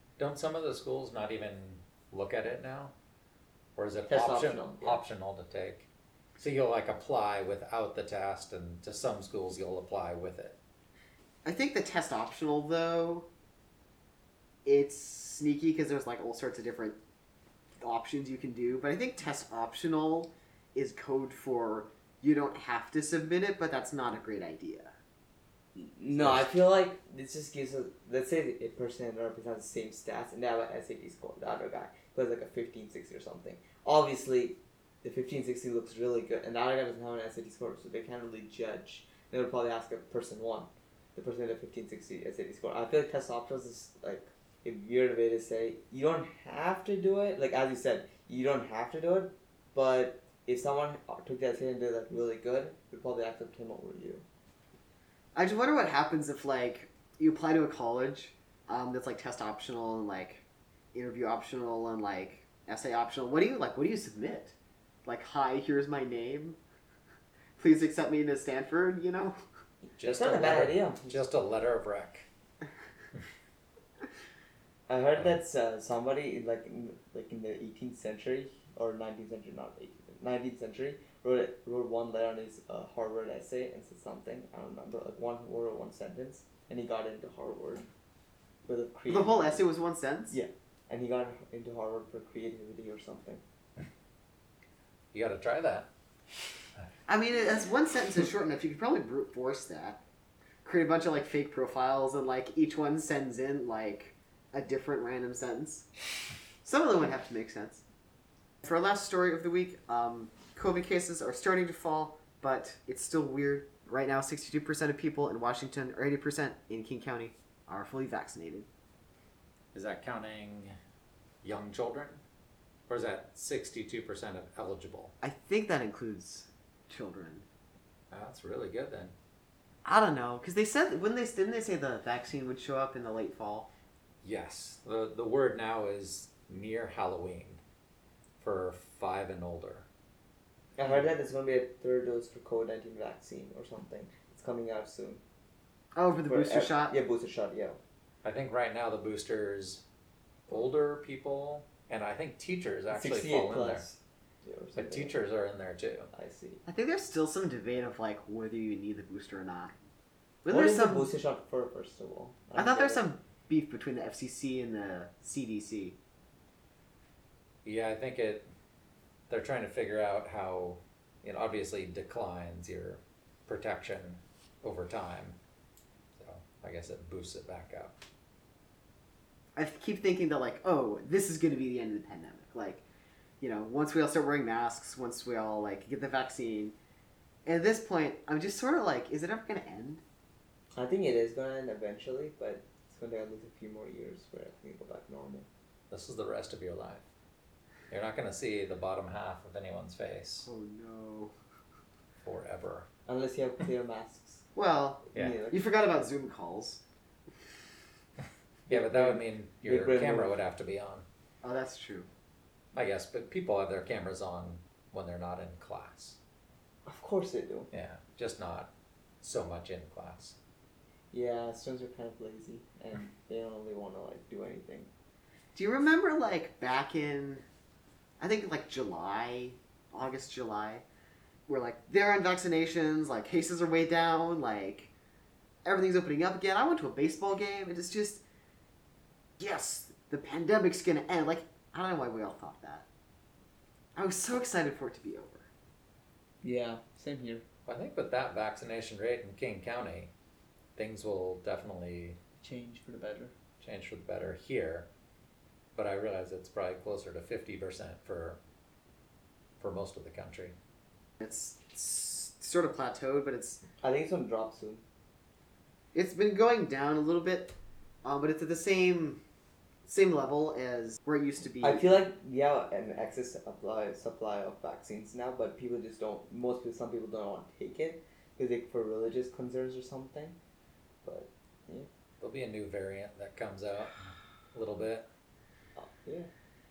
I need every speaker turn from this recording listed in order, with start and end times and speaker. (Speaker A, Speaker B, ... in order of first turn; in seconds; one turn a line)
Speaker A: 0.2-2.9
Speaker A: 3.8-10.6
Speaker B: 4.1-5.0
Speaker C: 11.4-13.3
Speaker C: 14.6-17.0
Speaker C: 17.8-24.9
Speaker B: 25.8-54.2
Speaker A: 26.2-26.5
Speaker C: 55.3-66.6
Speaker C: 67.6-69.3
Speaker A: 70.0-72.2
Speaker B: 70.0-71.2
Speaker B: 74.9-87.8
Speaker B: 88.7-89.6
Speaker C: 89.1-90.3
Speaker B: 90.3-93.4
Speaker A: 95.1-95.9
Speaker C: 97.1-100.0
Speaker C: 100.6-105.9
Speaker C: 106.6-107.8
Speaker C: 108.6-118.7
Speaker A: 119.7-120.7
Speaker A: 121.4-122.2
Speaker A: 122.9-125.1
Speaker C: 125.2-127.4
Speaker A: 128.1-129.1
Speaker C: 129.8-133.7
Speaker A: 134.2-137.6
Speaker A: 138.4-139.8
Speaker B: 140.8-145.2
Speaker C: 145.9-146.9
Speaker B: 146.3-147.8
Speaker A: 148.2-149.8
Speaker A: 150.5-153.8
Speaker B: 152.9-155.2
Speaker A: 154.8-156.1
Speaker B: 156.1-156.6
Speaker C: 156.7-159.8
Speaker C: 160.4-161.1
Speaker B: 160.5-163.0
Speaker C: 162.5-165.9
Speaker A: 167.6-168.4
Speaker A: 169.3-175.4
Speaker A: 176.2-177.9
Speaker C: 179.6-182.8
Speaker C: 183.4-186.7
Speaker C: 187.4-190.0
Speaker B: 190.8-195.5
Speaker A: 195.9-197.1
Speaker A: 197.9-200.5
Speaker C: 200.4-201.3
Speaker A: 202.2-202.9
Speaker B: 203.1-204.4
Speaker C: 204.5-206.8
Speaker B: 205.1-205.6
Speaker A: 208.7-211.0
Speaker B: 208.7-210.4
Speaker C: 211.4-212.1
Speaker A: 212.7-216.2
Speaker B: 216.8-217.7
Speaker A: 217.7-220.3
Speaker B: 221.1-224.9
Speaker C: 225.5-227.4
Speaker C: 228.2-230.8
Speaker C: 231.5-234.9
Speaker C: 235.6-238.2
Speaker C: 239.4-242.8
Speaker C: 243.9-245.5
Speaker B: 246.4-247.4
Speaker A: 247.7-250.1
Speaker A: 250.8-252.2
Speaker B: 252.4-253.3
Speaker A: 253.6-254.9
Speaker A: 255.7-258.4
Speaker A: 259.6-260.5
Speaker C: 261.2-263.6
Speaker B: 263.8-264.8
Speaker C: 265.9-269.2
Speaker C: 269.9-272.0
Speaker B: 271.6-280.4
Speaker B: 281.0-281.9
Speaker A: 282.2-285.1
Speaker B: 285.8-286.3